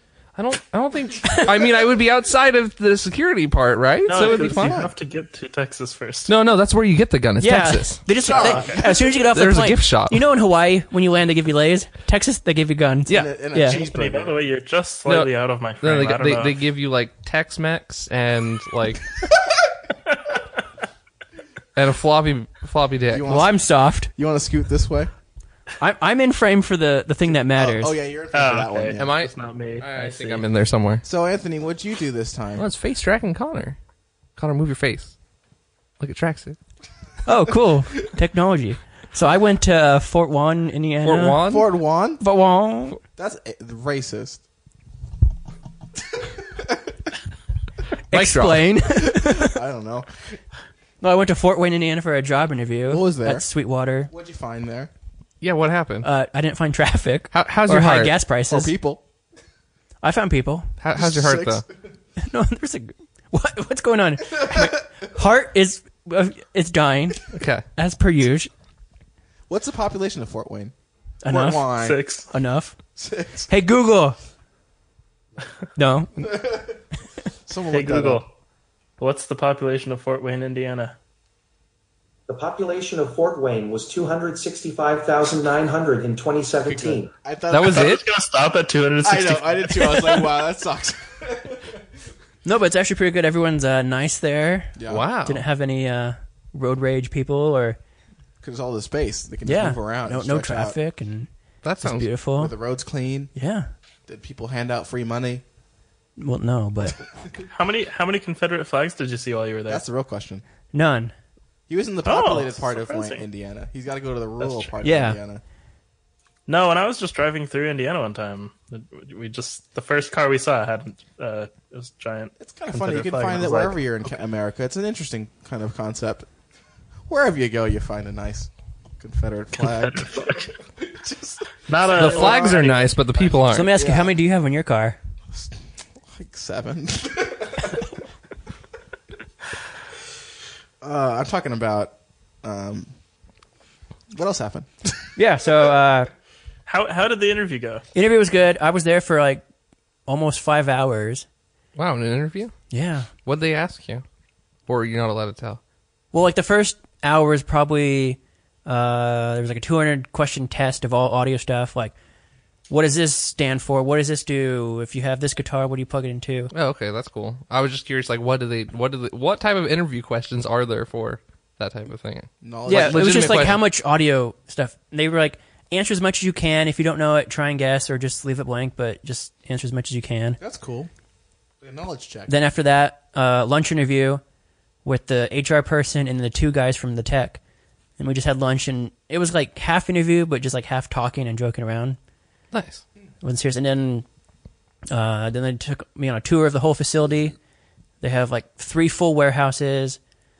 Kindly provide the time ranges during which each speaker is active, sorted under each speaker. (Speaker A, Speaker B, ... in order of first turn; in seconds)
Speaker A: 0.3-4.8, 6.3-8.0, 9.3-10.2, 15.1-19.0, 21.8-23.2, 28.9-31.0, 32.6-33.8, 34.4-35.1, 36.0-36.6, 41.0-41.7, 48.1-48.8, 55.4-56.1, 57.3-58.2, 60.8-61.6, 67.3-67.6, 87.5-88.0, 94.9-95.4, 101.6-102.1, 131.9-133.7, 151.8-152.5, 153.2-154.0, 154.7-155.6, 166.5-173.6, 192.5-192.8
Speaker B: 4.1-6.3, 8.3-8.8, 13.7-16.6, 28.3-30.4, 71.8-72.3, 77.7-78.3, 79.0-80.9, 87.7-90.3, 107.5-109.8, 112.0-113.2, 114.4-114.7, 116.5-124.0, 129.6-130.5, 131.7-132.9, 146.7-147.8
Speaker C: 4.1-4.9, 8.2-9.3, 13.1-14.4, 23.1-23.6, 24.1-25.1, 27.3-29.1, 31.0-32.6, 41.4-42.2, 43.1-44.4, 46.1-46.9, 48.9-50.4, 52.9-53.5, 54.1-54.9, 58.5-59.0, 60.9-61.7, 64.3-64.8, 69.5-70.7, 71.3-72.0, 73.0-73.5, 76.2-76.8, 77.5-78.2, 86.6-88.0, 89.0-91.8, 94.8-95.0, 98.4-100.8, 102.4-103.3, 104.1-105.4, 109.7-110.4, 111.7-115.4, 122.4-126.3, 127.1-134.1, 135.3-137.9, 140.8-142.9, 144.1-145.1, 172.4-173.6, 180.4-180.9, 181.6-182.3
Speaker D: 7.4-13.8, 23.3-24.1, 25.8-27.9, 37.2-41.4, 42.2-43.0, 48.1-49.6, 51.0-54.1, 56.0-58.7, 60.0-60.7, 62.2-68.5, 71.2-71.7, 72.3-72.8, 73.5-74.2, 75.8-76.4, 92.4-97.8, 99.4-101.3, 101.8-102.5, 103.3-103.7, 106.2-107.0, 110.7-111.1, 114.8-115.2, 133.5-135.0, 145.2-146.1, 147.9-149.4, 150.1-151.2, 152.7-153.1, 156.1-161.9, 162.7-166.5, 172.7-180.4, 182.3-184.2, 184.8-187.4, 188.0-192.0, 193.2-194.1, 194.9-197.3, 198.0-200.0
Speaker E: 82.3-87.1